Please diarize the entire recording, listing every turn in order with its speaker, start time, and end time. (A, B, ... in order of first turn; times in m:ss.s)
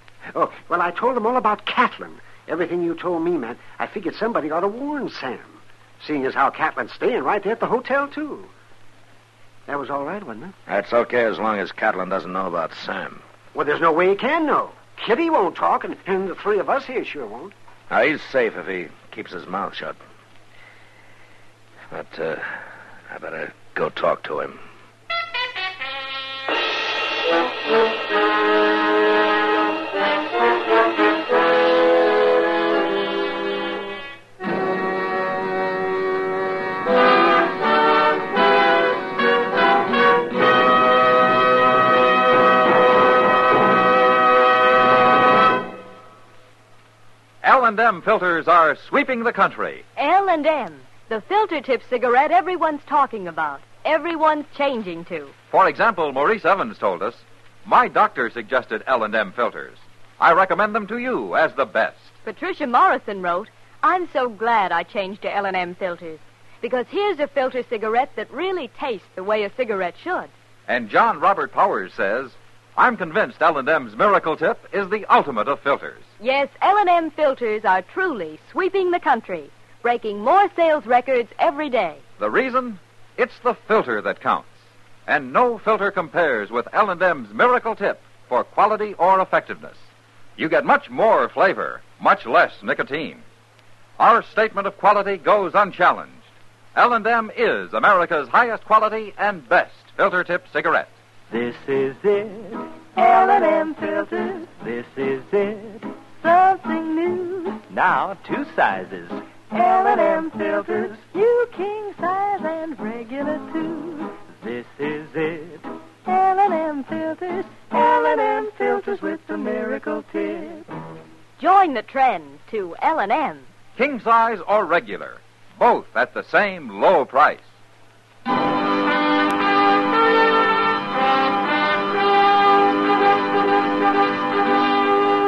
0:00.3-0:08.5 A
0:09.7-0:10.6 A
0:10.7-0:13.2 B
0:13.5-0:17.5 A
0:17.9-0:20.0 B
0:21.9-0:22.6 B
0:23.1-0:24.6 B
0:47.4-0:49.8 C
0:50.0-0:55.3 D
0:55.5-1:02.2 C
1:02.2-1:10.3 D
1:10.7-1:16.1 C
1:16.2-1:22.0 D
1:22.2-1:24.5 C
1:25.1-1:29.8 C
1:30.4-1:33.2 C
1:34.0-1:36.2 C
1:36.8-1:40.9 C
1:41.3-1:42.6 E
1:44.3-1:45.8 E
1:47.7-1:49.2 E
1:50.5-1:50.7 E
1:53.7-1:55.6 E
1:56.2-1:56.6 D
1:57.8-1:58.4 D
1:59.5-2:00.4 E
2:01.4-2:03.5 D
2:03.8-2:07.5 C